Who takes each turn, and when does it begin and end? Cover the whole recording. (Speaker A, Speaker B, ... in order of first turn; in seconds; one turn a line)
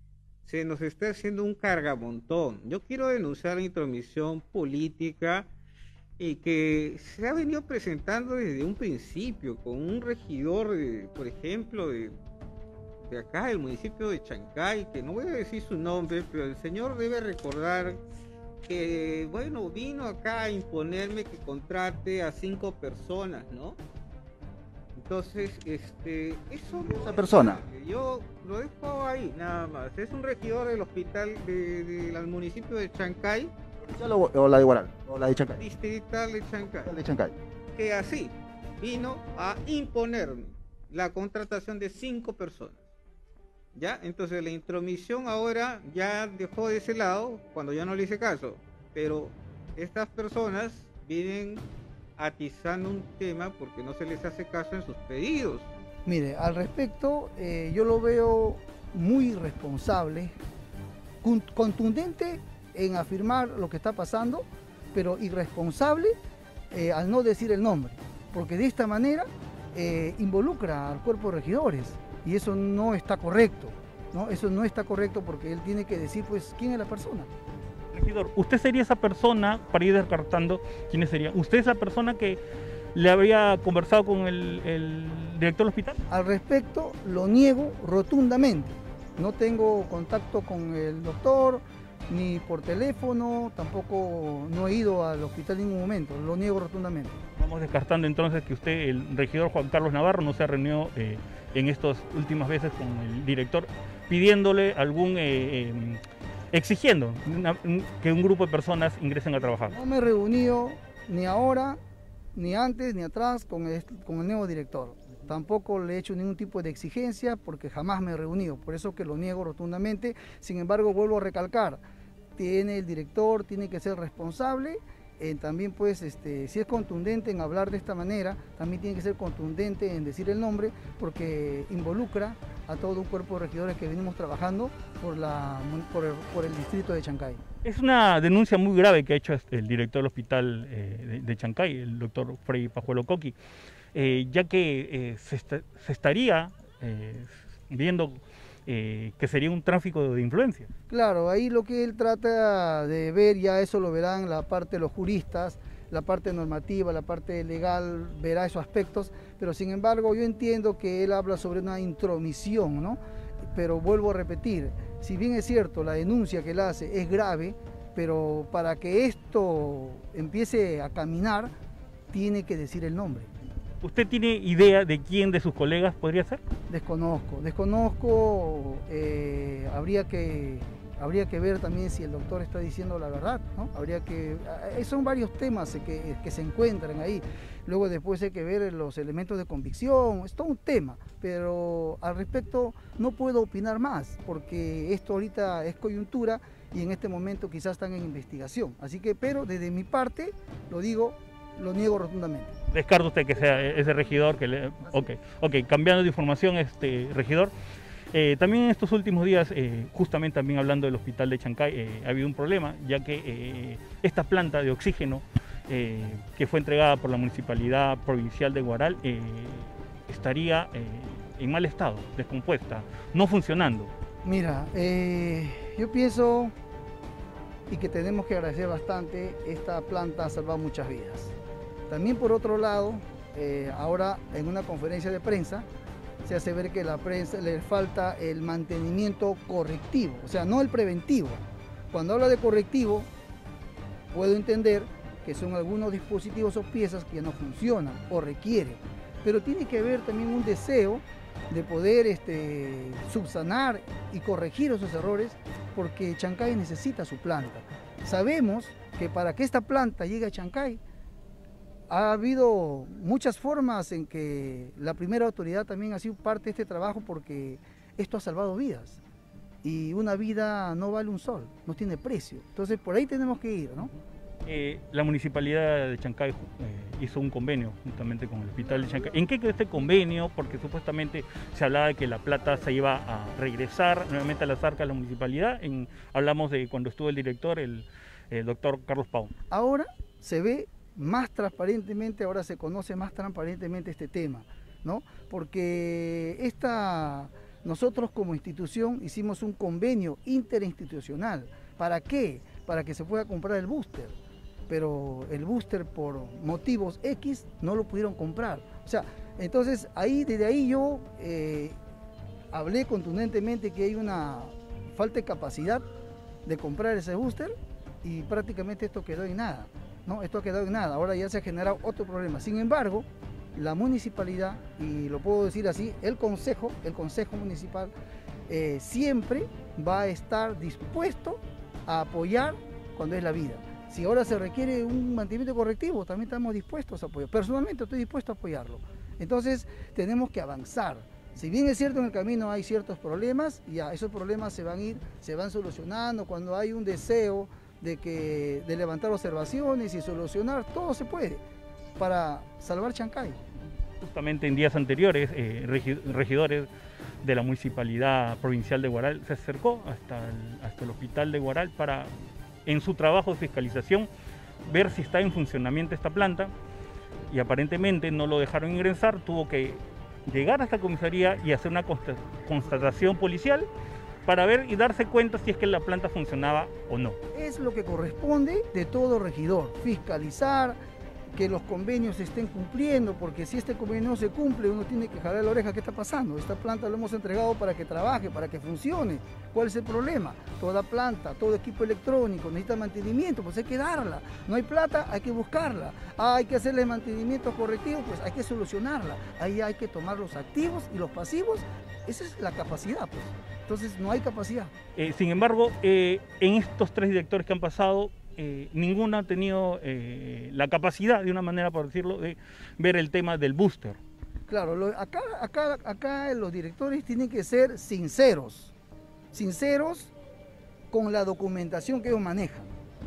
Speaker A: 0.4-5.5
Speaker A: 6.2-12.1
Speaker A: 13.0-18.0
Speaker A: 18.7-23.8
Speaker A: 25.0-33.5
Speaker B: 26.9-27.6
Speaker B: 33.8-35.6
Speaker A: 35.6-37.0
Speaker B: 36.8-37.3
Speaker A: 37.7-42.8
Speaker A: 43.7-51.6
Speaker A: 52.2-55.7
Speaker C: 56.0-60.3
Speaker C: 61.2-66.1
Speaker C: 66.7-77.3
Speaker D: 77.9-82.4
Speaker D: 82.9-86.0
Speaker C: 86.1-97.2
Speaker D: 97.4-106.0
Speaker D: 106.5-109.7
Speaker C: 109.4-111.8
Speaker C: 112.3-121.8
Speaker C: 122.3-137.4
Speaker D: 137.6-143.3
Speaker D: 143.9-150.7
Speaker C: 150.9-163.0
Speaker C: 163.5-171.5
Speaker C: 172.1-173.3
Speaker D: 173.8-176.4
Speaker C: 176.7-202.6
Speaker D: 202.7-207.5
Speaker D: 208.1-223.9
Speaker C: 224.2-226.5
Speaker C: 227.7-231.3
Speaker C: 231.9-235.7
Speaker C: 236.2-243.1
Speaker C: 244.1-260.8
Speaker C: 261.9-269.0
Speaker C: 269.6-273.9
Speaker D: 274.4-289.3
Speaker C: 289.5-304.2
Speaker C: 304.7-311.8
Speaker C: 312.5-315.8
Speaker C: 316.4-327.9
Speaker C: 328.5-351.4
Speaker C: 352.0-353.4
Speaker D: 354.0-356.7
Speaker D: 357.2-362.1
Speaker D: 362.6-364.1
Speaker D: 364.6-366.5
Speaker D: 367.3-373.7
Speaker D: 374.2-377.2
Speaker C: 377.3-380.8
Speaker C: 381.3-404.7
Speaker D: 405.0-414.0
Speaker C: 414.5-418.7
Speaker C: 419.3-420.1
Speaker C: 420.9-422.7